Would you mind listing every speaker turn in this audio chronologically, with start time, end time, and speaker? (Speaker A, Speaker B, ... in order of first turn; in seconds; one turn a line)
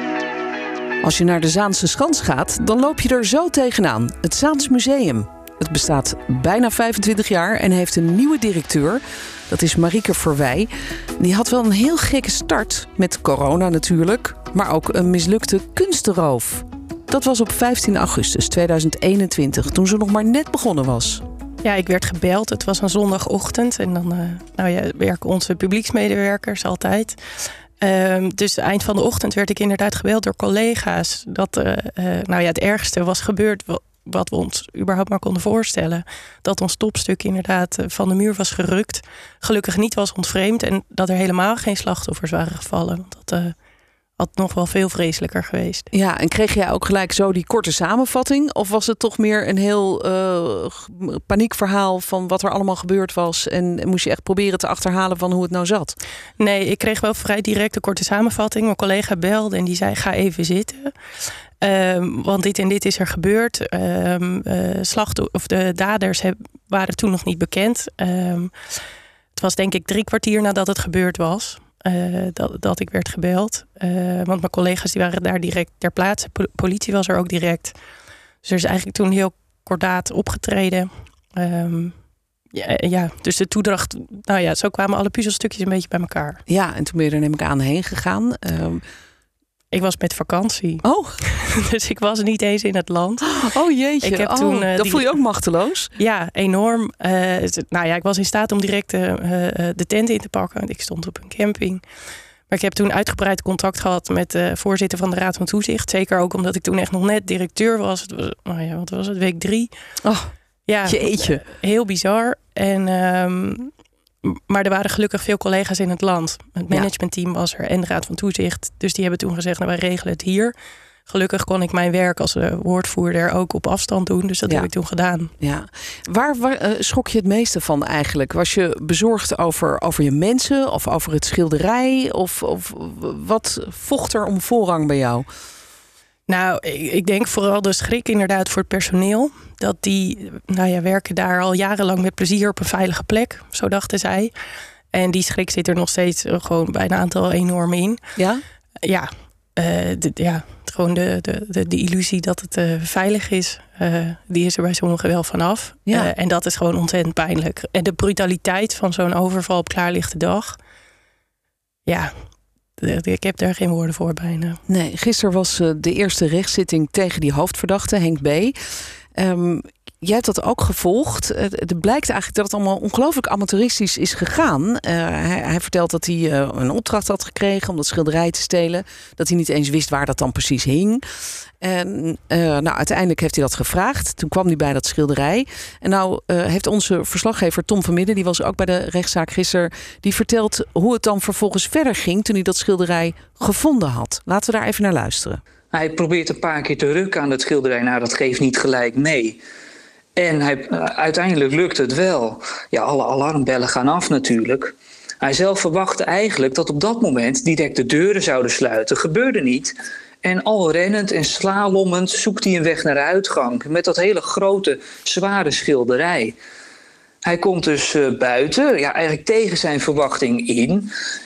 Speaker A: 1.0-21.2
Speaker B: 21.6-27.2
Speaker B: 27.8-43.6
Speaker B: 44.2-45.9
Speaker A: 45.9-56.0
Speaker B: 56.4-61.0
Speaker B: 61.6-68.7
Speaker B: 69.3-77.8
Speaker B: 78.4-82.0
Speaker B: 82.5-86.4
Speaker A: 86.5-88.8
Speaker B: 89.7-93.4
Speaker A: 90.8-91.2
Speaker A: 93.4-95.9
Speaker B: 94.0-95.3
Speaker B: 96.0-101.8
Speaker B: 102.5-109.7
Speaker A: 110.0-110.3
Speaker B: 110.7-113.7
Speaker A: 110.8-111.4
Speaker B: 114.2-120.5
Speaker B: 121.1-125.3
Speaker A: 125.4-135.3
Speaker B: 136.3-144.3
Speaker B: 144.9-148.0
Speaker A: 148.2-148.4
Speaker B: 148.8-160.6
Speaker A: 155.9-156.1
Speaker B: 161.9-162.2
Speaker B: 162.8-164.6
Speaker A: 164.7-168.6
Speaker A: 169.2-181.0
Speaker A: 181.6-195.4
Speaker C: 195.7-199.4
Speaker C: 200.2-209.7
Speaker C: 210.2-216.3
Speaker C: 217.2-220.9